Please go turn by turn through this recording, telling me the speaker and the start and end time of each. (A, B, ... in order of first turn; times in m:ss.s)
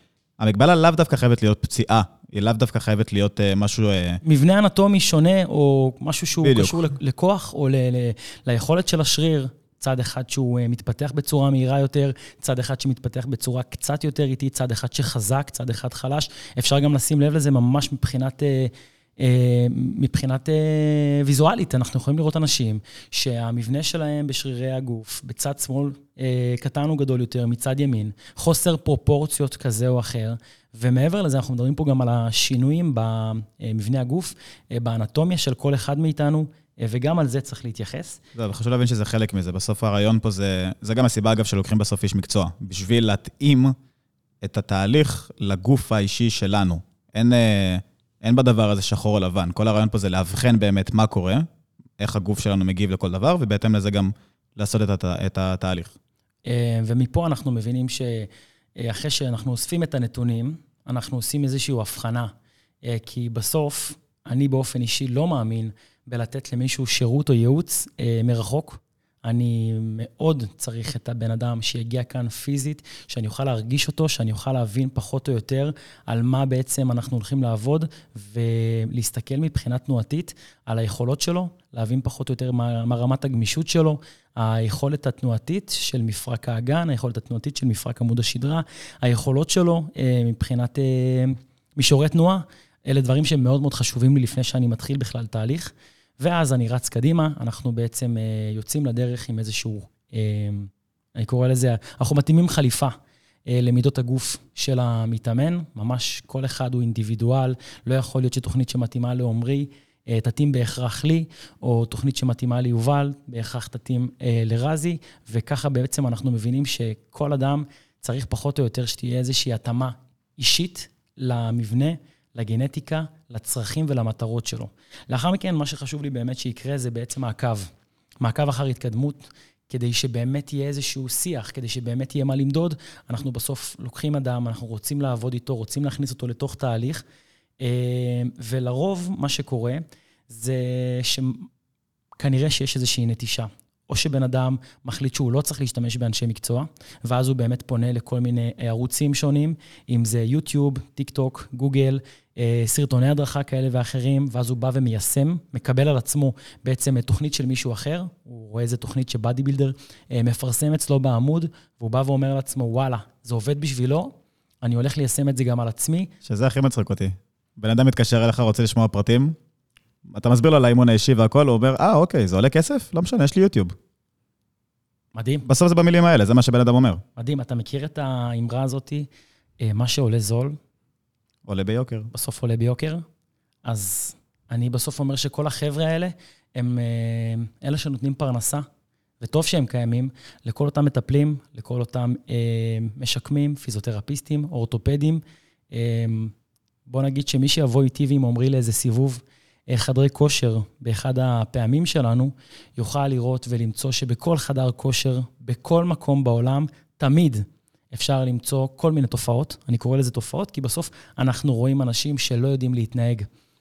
0:00.4-0:04.2 A
0:04.2-0:38.2 B
0:06.4-0:06.9 A
0:38.4-0:43.8 A
0:44.4-0:51.5 A
0:52.0-0:56.0 A
0:56.5-1:02.3 B
1:02.8-1:42.9 B
1:43.5-2:07.7 B
2:08.2-2:17.0 B
2:17.6-2:21.5 B
2:22.2-2:46.1 B
2:46.2-2:49.4 A
2:50.1-2:53.8 A
2:55.2-2:55.4 B
2:55.4-2:57.0 A
2:57.2-2:59.1 B
2:59.6-3:00.6 B
3:01.5-3:02.1 A
3:02.1-3:03.0 B
3:03.6-3:08.6 B
3:09.2-3:16.3 B
3:16.9-3:33.3 B